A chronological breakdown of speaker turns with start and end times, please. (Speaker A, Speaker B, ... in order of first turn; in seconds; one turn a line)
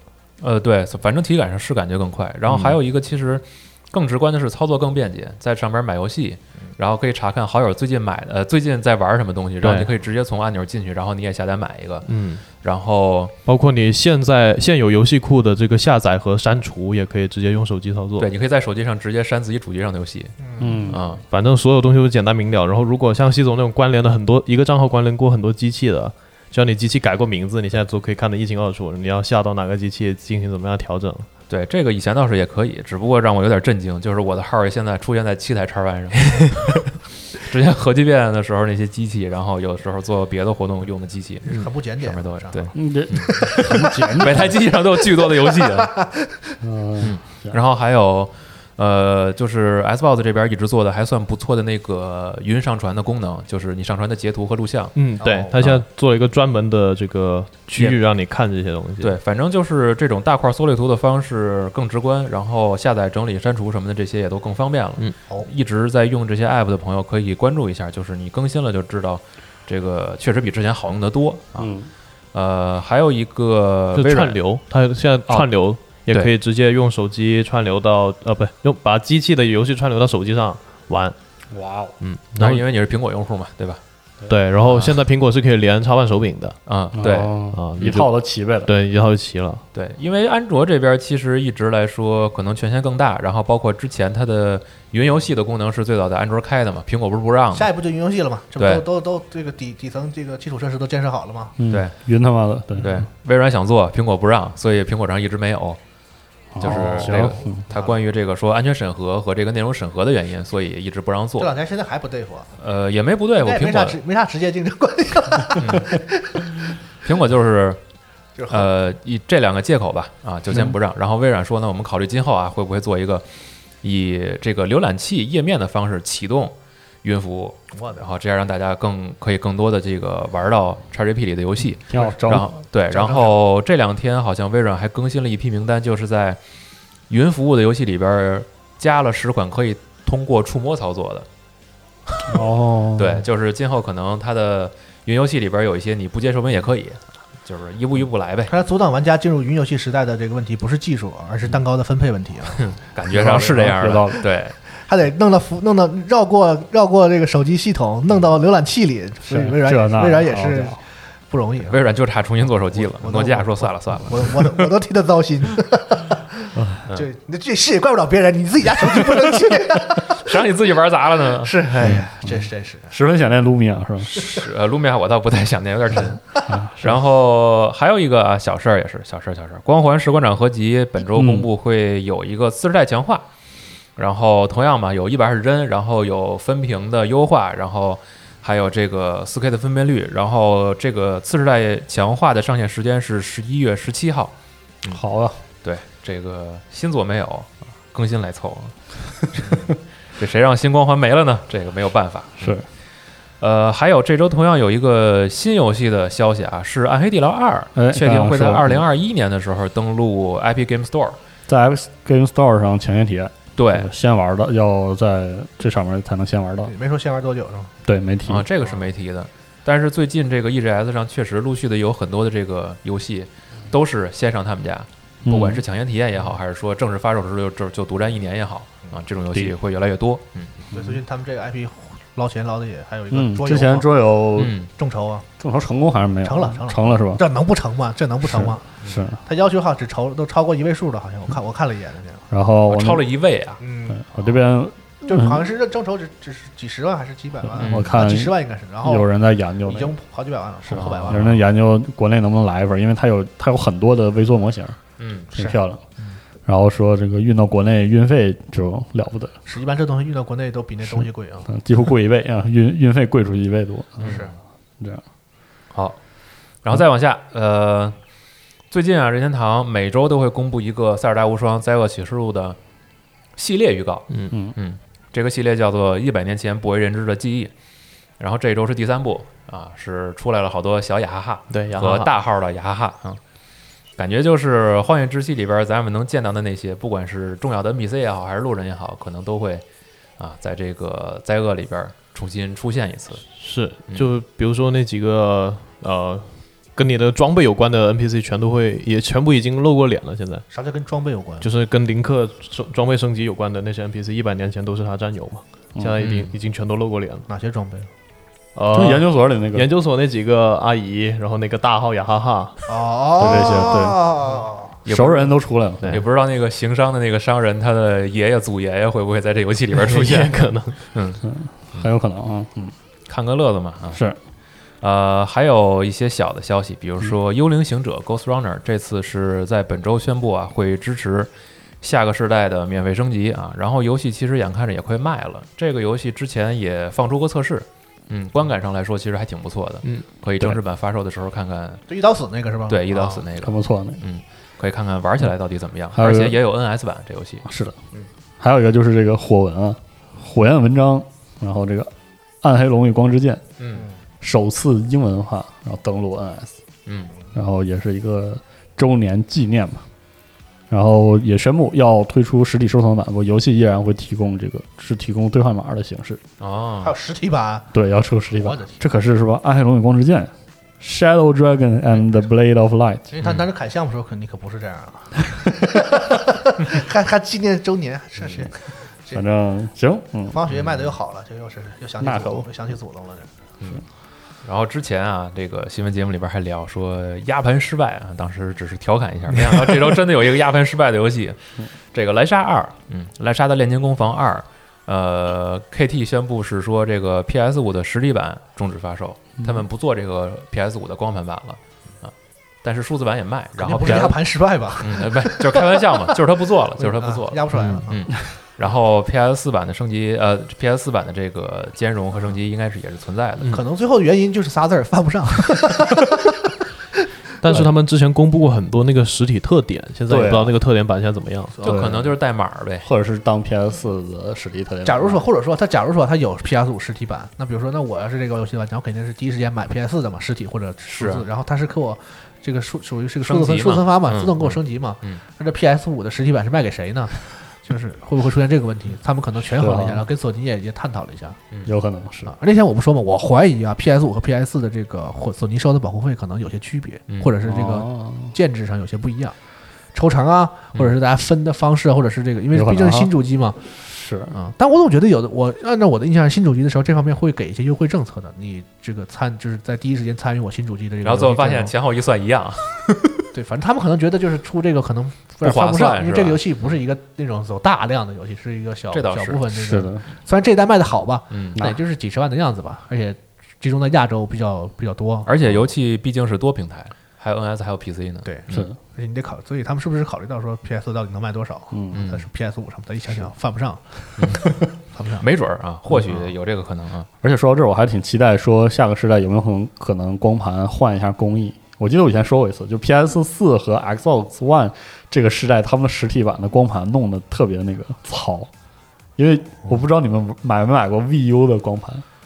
Speaker A: 0.4-13.3
Speaker B: 2.5-2.8
Speaker B: 9.6-9.9
Speaker B: 12.1-12.4
Speaker B: 13.5-18.3
Speaker A: 18.2-20.4
Speaker C: 20.4-20.9
Speaker D: 20.6-21.0
Speaker A: 20.9-21.2
Speaker B: 21.3-31.3
Speaker A: 31.5-36.8
Speaker A: 37.4-46.0
Speaker C: 41.5-46.4
Speaker D: 42.7-44.6
Speaker D: 46.6-47.6
Speaker A: 47.0-55.0
Speaker B: 55.0-59.2
Speaker C: 55.2-55.6
Speaker A: 55.6-55.8
Speaker A: 59.0-71.7
Speaker D: 71.6-71.9
Speaker A: 72.3-74.4
Speaker B: 73.9-81.2
Speaker D: 81.5-81.9
Speaker B: 82.0-82.6
Speaker A: 82.4-83.8
Speaker B: 84.3-86.6
Speaker A: 84.6-85.0
Speaker A: 86.7-87.3
Speaker D: 87.0-88.7
Speaker B: 87.5-88.1
Speaker B: 88.6-89.6
Speaker A: 89.7-97.7
Speaker C: 97.5-101.6
Speaker A: 98.6-98.8
Speaker D: 101.6-103.0
Speaker A: 102.8-105.8
Speaker D: 106.5-107.6
Speaker A: 106.6-111.5
Speaker C: 106.6-108.0
Speaker C: 111.4-112.5
Speaker A: 112.6-114.0
Speaker C: 113.4-116.6
Speaker A: 115.6-116.0
Speaker A: 117.0-117.8
Speaker C: 118.4-118.7
Speaker A: 118.5-123.3
Speaker A: 123.8-136.4
Speaker C: 127.7-128.1
Speaker D: 131.9-132.5
Speaker C: 131.9-133.4
Speaker A: 137.1-141.3
Speaker D: 142.3-143.2
Speaker A: 143.0-148.5
Speaker C: 148.5-152.8
Speaker A: 152.8-154.6
Speaker D: 153.1-154.2
Speaker C: 154.8-161.8
Speaker D: 159.3-160.8
Speaker A: 161.7-164.7
Speaker C: 162.8-170.4
Speaker D: 166.6-166.8
Speaker A: 170.0-171.9
Speaker C: 171.4-173.0
Speaker D: 171.8-174.2
Speaker A: 174.1-183.3
Speaker D: 176.5-176.9
Speaker D: 181.0-181.5
Speaker A: 184.0-195.0
Speaker D: 194.9-195.4
Speaker A: 195.6-198.8
Speaker A: 199.3-202.6
Speaker A: 203.4-211.2
Speaker D: 207.8-208.8
Speaker D: 211.5-216.7
Speaker A: 213.6-213.9
Speaker C: 216.7-217.7
Speaker D: 217.9-218.5
Speaker A: 218.3-230.5
Speaker D: 225.2-225.6
Speaker C: 230.7-233.9
Speaker D: 230.7-231.0
Speaker D: 233.1-234.6
Speaker A: 234.4-234.7
Speaker C: 234.8-235.3
Speaker D: 235.4-237.2
Speaker C: 236.2-238.7
Speaker D: 238.2-239.2
Speaker C: 239.2-242.3
Speaker D: 242.3-243.1
Speaker A: 242.7-243.6
Speaker C: 243.6-244.2
Speaker D: 243.9-245.5
Speaker C: 245.0-251.3
Speaker D: 247.5-249.9
Speaker A: 247.6-247.9
Speaker D: 250.7-254.8
Speaker A: 250.7-251.4
Speaker A: 255.0-255.3
Speaker D: 255.3-255.8
Speaker C: 255.4-256.2
Speaker D: 256.5-259.4
Speaker C: 259.5-261.5
Speaker D: 260.9-264.2
Speaker A: 264.0-264.3
Speaker C: 264.0-264.3
Speaker A: 266.6-268.0
Speaker A: 268.7-272.6
Speaker A: 273.4-277.5
Speaker D: 274.3-274.6
Speaker A: 278.2-283.2
Speaker B: 281.5-282.1
Speaker A: 284.0-289.6
Speaker A: 290.2-293.2
Speaker B: 293.4-300.5
Speaker C: 300.5-301.5
Speaker B: 301.4-307.3
Speaker A: 306.0-306.3
Speaker C: 307.3-307.9
Speaker B: 308.6-312.7
Speaker D: 308.7-309.7
Speaker C: 312.7-314.8
Speaker D: 313.2-314.0
Speaker A: 314.9-315.3
Speaker D: 314.9-316.0
Speaker A: 315.9-321.9
Speaker B: 319.7-320.8
Speaker D: 321.2-322.8
Speaker A: 323.1-324.0
Speaker D: 323.9-324.2
Speaker A: 324.8-331.3
Speaker A: 331.8-341.8
Speaker C: 341.9-343.2
Speaker A: 342.7-348.1
Speaker D: 343.4-344.0
Speaker D: 345.9-346.4
Speaker D: 347.4-347.8
Speaker D: 348.4-353.4
Speaker A: 353.6-353.9
Speaker D: 354.2-356.6
Speaker A: 356.9-357.1
Speaker D: 357.3-359.9
Speaker D: 360.7-366.2
Speaker A: 366.4-366.9
Speaker C: 366.8-367.7
Speaker D: 367.7-373.1
Speaker C: 368.4-368.8
Speaker C: 373.1-379.2
Speaker D: 379.1-380.4
Speaker C: 380.3-383.3
Speaker A: 380.5-380.9
Speaker D: 382.0-382.5
Speaker A: 384.4-391.4
Speaker A: 391.9-404.2
Speaker C: 403.6-406.2
Speaker A: 404.8-413.5
Speaker C: 406.8-408.1
Speaker B: 407.5-407.8
Speaker C: 413.5-416.5
Speaker B: 417.4-421.5
Speaker D: 420.1-420.6
Speaker A: 421.6-422.9
Speaker D: 421.6-422.1
Speaker D: 422.8-425.2
Speaker C: 424.9-441.4
Speaker A: 430.9-431.2
Speaker A: 433.3-435.2
Speaker D: 439.5-440.1
Speaker D: 441.7-442.3
Speaker C: 442.2-449.4
Speaker D: 447.4-448.3
Speaker C: 449.9-453.6
Speaker D: 452.5-453.1
Speaker D: 453.9-454.3
Speaker C: 454.3-461.7
Speaker A: 461.0-463.3
Speaker C: 463.3-475.3
Speaker A: 465.4-466.8
Speaker A: 468.9-469.4
Speaker D: 469.5-470.0
Speaker A: 471.3-471.7
Speaker A: 475.3-478.7
Speaker C: 478.2-485.3
Speaker D: 481.7-482.0
Speaker A: 481.9-482.3
Speaker A: 484.2-484.5
Speaker A: 485.2-487.1
Speaker D: 487.2-498.5
Speaker D: 499.2-502.1